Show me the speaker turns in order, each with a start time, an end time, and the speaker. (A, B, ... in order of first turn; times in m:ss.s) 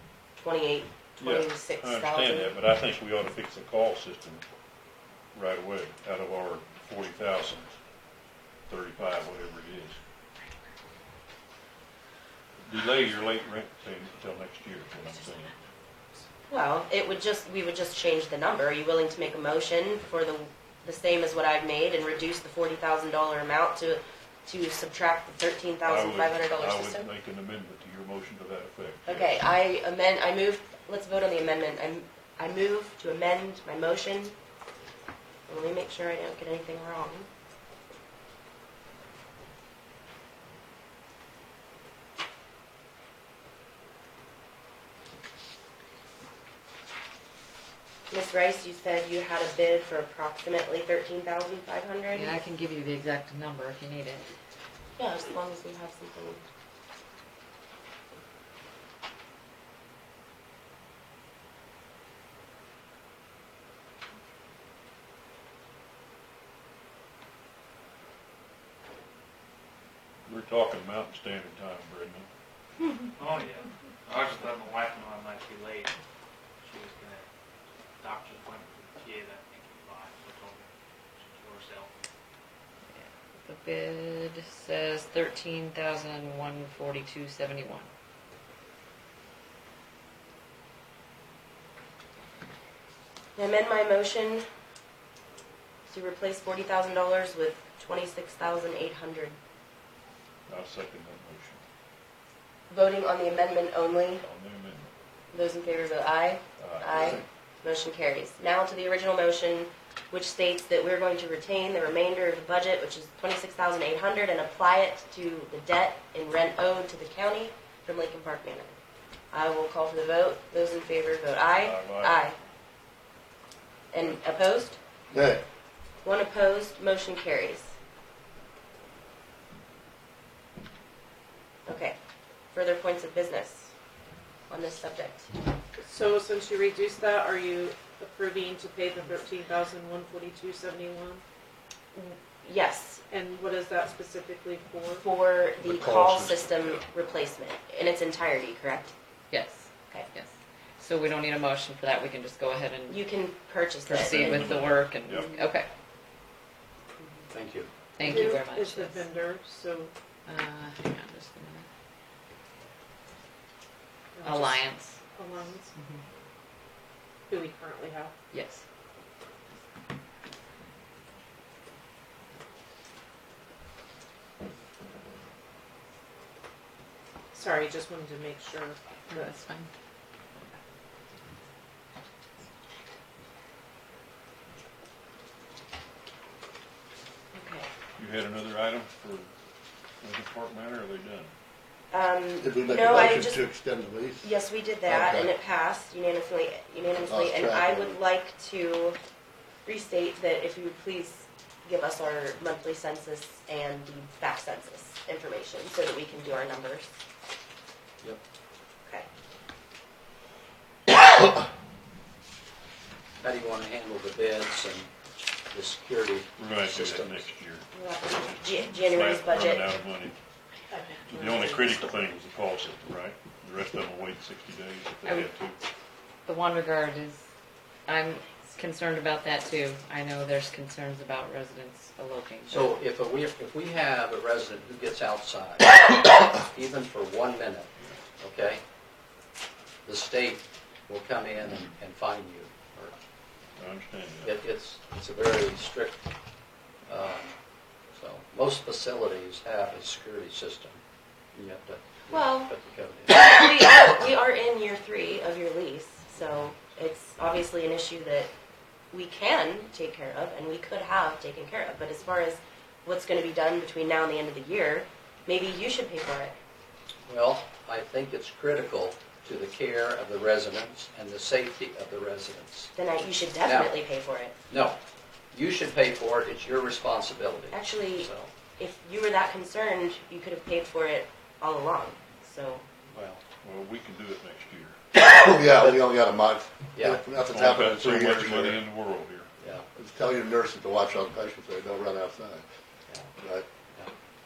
0:00.4-0:02.5 A
0:01.2-0:04.4 B
0:05.3-0:07.7 B
0:08.7-0:10.0 B
0:12.6-0:15.5 B
0:16.5-0:27.1 A
0:25.8-0:29.3 B
0:29.0-0:34.3 A
0:35.5-0:37.3 A
0:48.1-0:52.4 A
0:52.1-0:54.3 C
0:55.0-0:56.4 A
1:10.3-1:12.3 B
1:13.2-1:15.9 D
1:16.6-1:17.3 D
1:18.0-1:22.0 D
1:22.9-1:27.9 C
1:33.4-1:34.5 A
1:35.9-1:39.4 A
1:40.5-1:41.6 B
1:42.7-1:44.2 A
1:44.2-1:44.9 B
1:45.3-1:58.7 A
1:46.6-1:47.2 B
1:59.3-2:02.4 A
2:01.6-2:02.2 B
2:03.9-2:04.8 A
2:05.1-2:05.4 E
2:06.0-2:07.7 A
2:11.6-2:12.0 A
2:12.5-2:13.7 A
2:14.5-2:15.3 A
2:15.8-2:21.2 F
2:21.9-2:23.0 A
2:23.1-2:25.0 F
2:24.9-2:28.9 A
2:25.7-2:26.0 B
2:26.0-2:26.4 E
2:29.3-2:33.0 C
2:32.9-2:34.6 A
2:33.8-2:35.7 C
2:34.0-2:35.3 B
2:37.3-2:37.7 G
2:38.0-2:39.0 C
2:38.0-2:39.9 F
2:40.2-2:41.6 C
2:44.1-2:44.6 F
2:44.2-2:45.0 C
2:45.1-2:45.7 F
2:47.3-2:48.1 F
2:48.3-2:48.6 C
2:57.3-2:59.3 F
2:59.1-2:59.7 C
3:07.3-3:07.7 A
3:08.0-3:09.3 B
3:10.0-3:11.3 B
3:11.9-3:13.4 A
3:12.4-3:14.3 E
3:14.2-3:19.0 A
3:14.9-3:15.3 E
3:17.1-3:18.0 E
3:19.6-3:26.9 A
3:33.2-3:34.9 G
3:35.5-3:37.3 G
3:36.4-3:40.2 B
3:37.7-3:39.6 A
3:40.7-3:41.6 F
3:41.0-3:45.6 B
3:46.2-3:47.2 C
3:47.9-3:52.7 C
3:52.5-3:58.6 G
3:59.8-4:03.0 G
4:03.6-4:04.4 B
4:04.2-4:06.0 G
4:06.8-4:07.3 G
4:07.9-4:10.8 G
4:11.3-4:13.3 G
4:12.1-4:12.5 A
4:13.1-4:18.3 A
4:18.9-4:26.3 A
4:27.1-4:32.7 G
4:32.7-4:34.3 A
4:33.4-4:33.8 G
4:34.5-4:34.8 G
4:35.3-4:38.3 G
4:37.5-4:42.6 A
4:42.9-4:43.2 G
4:43.4-4:44.8 B
4:44.9-4:48.6 E
4:46.8-4:47.1 G
4:47.3-4:49.3 B
4:49.4-4:49.7 G
4:49.7-4:52.4 E
4:53.2-4:53.4 E